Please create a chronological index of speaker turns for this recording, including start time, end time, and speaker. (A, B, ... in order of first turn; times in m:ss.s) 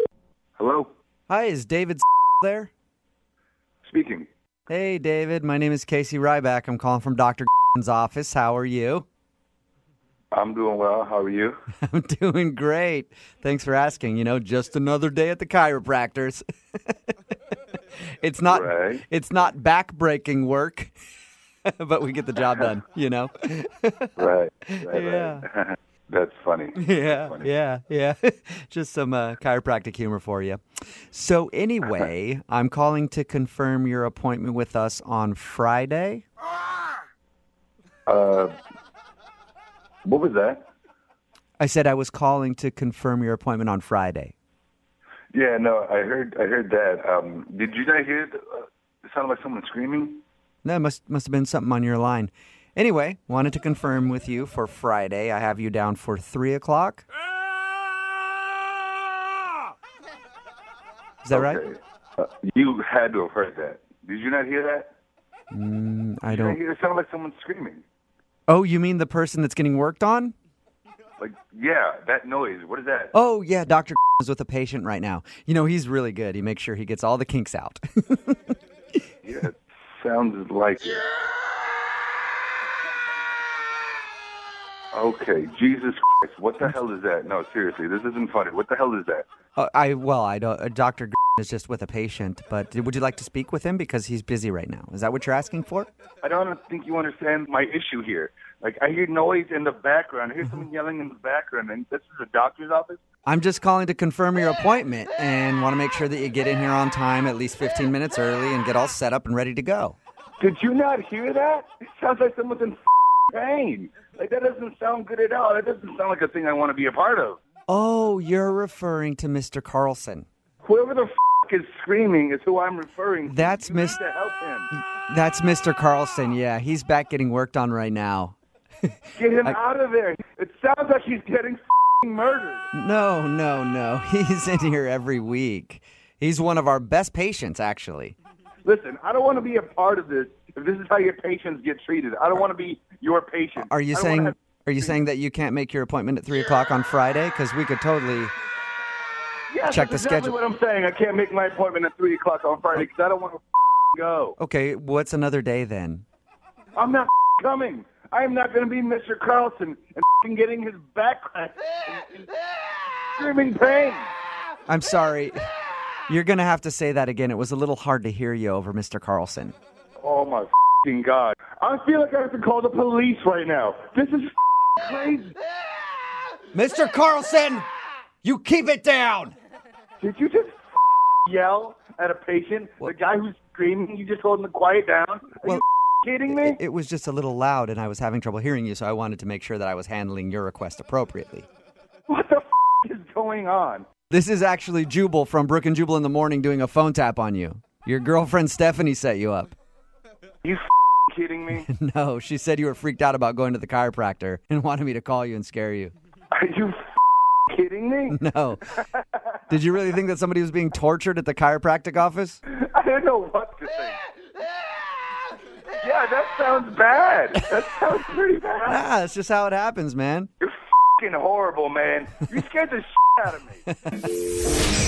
0:00.6-0:00.9 A
0:01.3-0:02.7 B
0:03.8-0:04.3 A
0:04.7-0:09.0 B
0:10.3-0:11.6 A
0:11.8-0:17.0 B
0:18.2-0:20.9 B
0:18.5-0:19.0 A
0:21.7-0:24.2 B
0:24.2-0:27.5 A
0:24.7-0:25.5 B
0:26.7-0:36.2 B
0:38.0-0:38.6 A
0:40.0-0:40.6 A
0:41.6-0:44.3 B
0:45.3-0:50.2 A
0:50.6-0:57.0 B
1:01.2-1:01.6 B
1:01.3-1:04.9 A
1:05.5-1:06.6 B
1:06.3-1:07.8 A
1:08.5-1:10.3 B
1:11.2-1:13.1 A
1:13.1-1:18.4 B
1:19.2-1:21.0 A
1:24.9-1:29.2 A
1:29.6-1:35.9 B
1:36.2-1:43.0 A
1:43.2-1:50.0 B
1:50.4-1:52.8 A
1:53.3-1:57.4 A
1:57.7-2:00.2 B
2:00.6-2:04.7 A
2:03.3-2:04.0 B
2:05.1-2:08.4 B
2:09.1-2:12.7 A
2:12.7-2:18.1 B
2:18.6-2:25.0 A
2:23.6-2:28.3 B
2:29.5-2:34.4 A
2:29.7-2:30.4 B
2:34.4-2:36.0 B
2:36.8-2:42.3 A
2:43.2-2:44.1 A
2:44.7-2:45.5 B
2:46.1-2:49.5 B
2:50.0-2:55.4 A
2:56.5-2:57.7 B
2:58.2-2:59.3 B
3:00.0-3:00.6 A
3:01.2-3:06.6 A
3:06.3-3:11.5 B
3:12.1-3:13.8 A
3:14.1-3:19.5 B
3:20.4-3:21.7 A
3:21.7-3:25.9 B
3:26.3-3:26.8 A
3:27.5-3:28.2 A
3:28.1-3:28.7 B
3:29.5-3:32.4 B
3:32.5-3:34.0 A
3:35.8-3:38.8 A
3:38.6-3:40.3 B
3:40.4-3:43.7 A